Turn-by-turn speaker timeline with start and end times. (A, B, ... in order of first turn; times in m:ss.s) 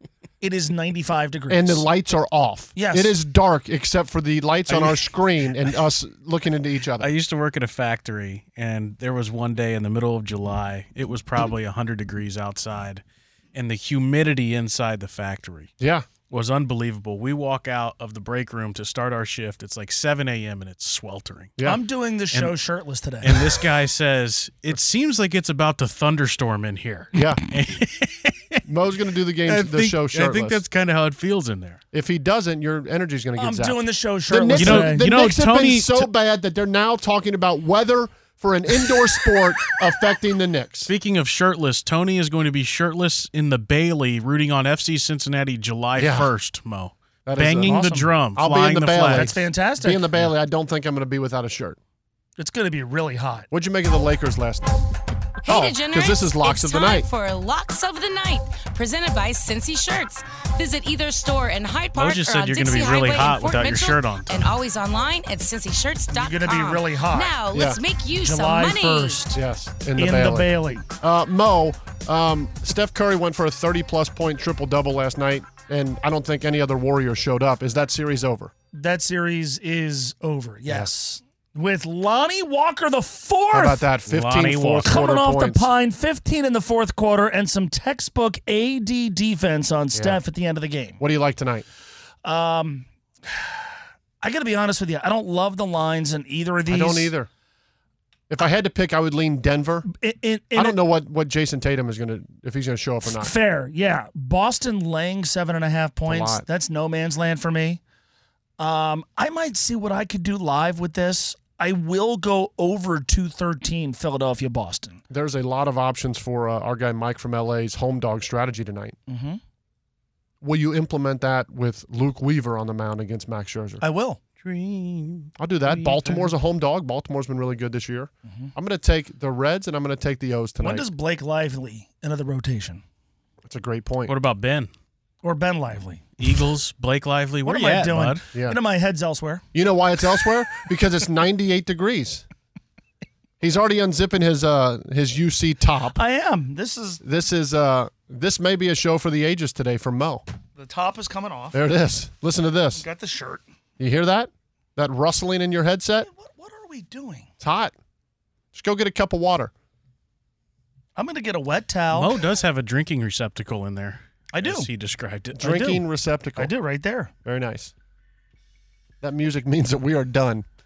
0:00.4-0:01.9 A
0:01.5-0:07.1 B
0:02.8-0:03.2 A
0:04.7-0:05.0 A
0:07.0-0:13.0 C
0:13.5-0:15.7 C
0:15.8-0:16.0 B
0:16.3-0:21.6 C
0:21.6-0:23.4 A
0:23.2-0:28.4 C
0:27.1-0:27.4 B
0:28.6-0:30.6 B
0:29.4-0:31.8 C
0:31.9-0:40.9 B
0:33.4-0:35.1 A
0:34.6-0:36.1 C
0:40.8-0:49.4 C
0:46.0-0:46.3 B
0:47.2-0:51.8 B
0:47.6-0:48.1 A
0:49.1-0:50.0 A
0:52.4-0:53.5 A
0:53.5-0:54.8 B
0:55.4-1:09.3 D
0:55.4-0:57.1 B
1:02.0-1:04.5 C
1:06.1-1:07.4 A
1:07.5-1:07.8 B
1:08.2-1:09.4 A
1:09.3-1:10.5 B
1:10.0-1:10.8 A
1:11.0-1:18.5 B
1:18.7-1:23.9 A
1:23.5-1:25.7 B
1:24.1-1:25.0 C
1:24.8-1:31.0 A
1:29.9-1:30.2 B
1:31.0-1:31.6 B
1:32.2-1:32.9 A
1:34.2-1:37.1 A
1:36.6-1:37.3 B
1:38.3-1:39.9 B
1:39.8-1:40.8 A
1:40.5-1:43.3 B
1:43.0-1:47.8 A
1:46.0-1:46.4 B
1:48.6-1:55.0 A
1:55.1-1:59.0 B
1:59.1-1:59.4 A
2:00.4-2:03.8 B
2:03.8-2:04.2 A
2:04.4-2:06.3 C
2:05.4-2:10.9 B
2:10.6-2:12.8 A
2:13.4-2:14.1 B
2:14.1-2:14.7 C
2:15.2-2:16.0 A
2:16.2-2:18.2 C
2:17.4-2:19.4 A
2:19.5-2:22.2 B
2:23.4-2:26.0 B
2:25.9-2:27.0 A
2:27.0-2:30.2 B
2:30.6-2:31.6 A
2:31.5-2:32.8 B
2:32.7-2:33.4 A
2:33.8-2:36.1 B
2:36.0-2:37.3 A
2:37.4-2:37.7 B
2:38.5-2:39.5 B
2:41.0-2:42.2 A
2:41.9-2:45.8 C
2:44.3-2:44.7 A
2:45.4-2:46.5 B
2:45.5-2:45.8 A
2:46.4-2:47.1 A
2:47.2-2:47.7 B
2:49.0-2:50.4 B